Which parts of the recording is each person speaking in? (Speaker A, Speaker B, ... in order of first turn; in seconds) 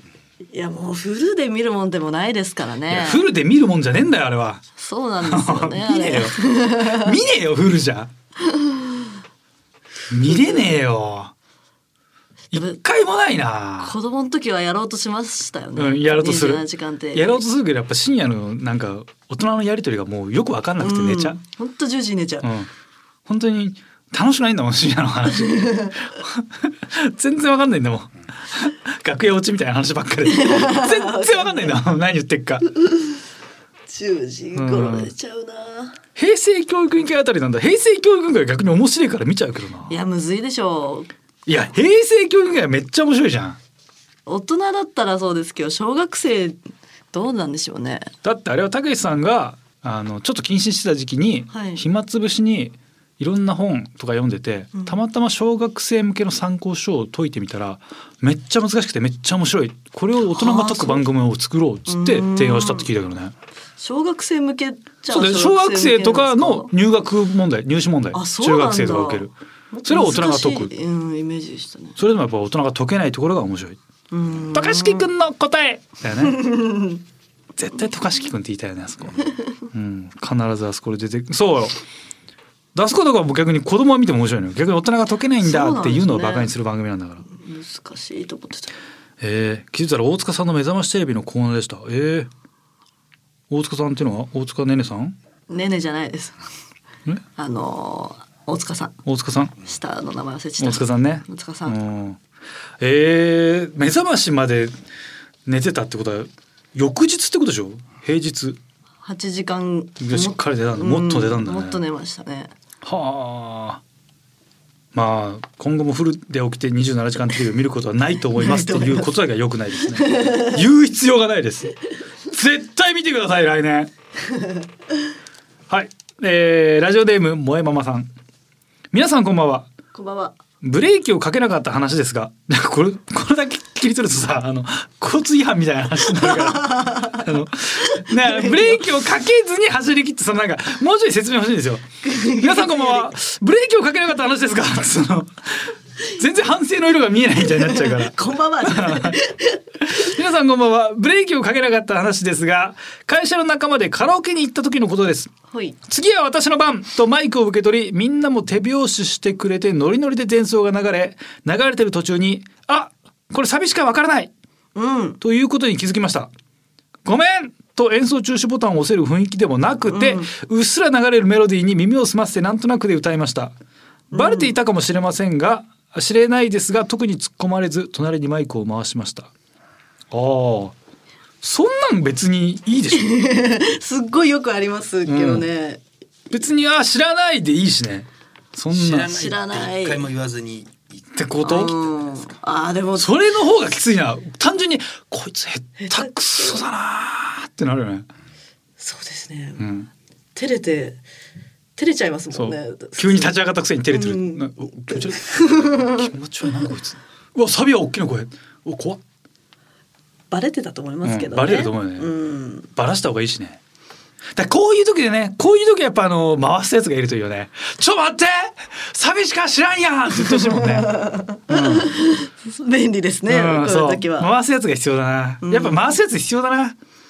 Speaker A: 0.5-3.2, 4.8-7.1, 8.4-9.1, 12.5-12.8, 13.8-17.4, 20.8-22.5, 25.5-25.9, 30.2-31.8, 32.8-33.2, 33.9-36.0, 39.9-41.1, 44.2-46.6, 47.1-48.1, 51.5-51.8, 60.2-61.0, 61.9-62.9, 63.8-66.7, 68.1-72.0, 74.1-75.1, 76.2-77.0, 85.4-86.5, 87.2-88.7, 95.5-96.4, 97.3-99.0, 99.6-101.8, 109.0-112.5, 118.4-119.1, 119.9-120.6, 129.9-130.3, 136.2-137.2, 137.8-138.8, 142.0-143.1, 147.4-149.9, 155.5-155.8, 164.7-165.2, 169.9-170.3, 174.1-174.5, 182.9-185.8, 189.1-190.1, 191.4-193.3, 195.8-196.6, 198.8-199.7, 200.3-201.0, 201.8-203.3, 203.9-206.0, 210.3-212.7, 220.2-224.3, 225.4-225.8
Speaker B: 2.9-4.6, 5.2-8.1, 10.1-11.3, 12.5-14.0, 15.8-21.4, 22.4-22.7, 23.2-32.7, 34.5-35.1, 36.1-40.0, 41.5-43.6, 48.2-63.3, 65.1-69.3, 69.8-70.7, 72.0-73.8, 74.5-76.6, 77.5-81.8, 82.7-87.2, 89.2-92.3, 93.5-95.2, 99.0-99.5, 100.6-102.2, 102.8-104.7, 105.5-108.6, 110.0-111.8, 112.8-113.8, 114.9-123.9, 125.7-128.1, 128.9-129.7, 130.6-149.2, 149.8-155.3, 155.9-164.3, 165.2-166.3, 167.0-173.5, 174.1-179.3, 180.1-180.7, 181.4-183.1, 185.1-185.4, 186.3-189.1, 191.1-191.8, 192.9-198.1, 199.6-199.9, 202.3-209.0, 211.0-212.2, 212.7-213.6, 214.3-221.9, 223.2-226.8
Speaker C: 188.7-192.4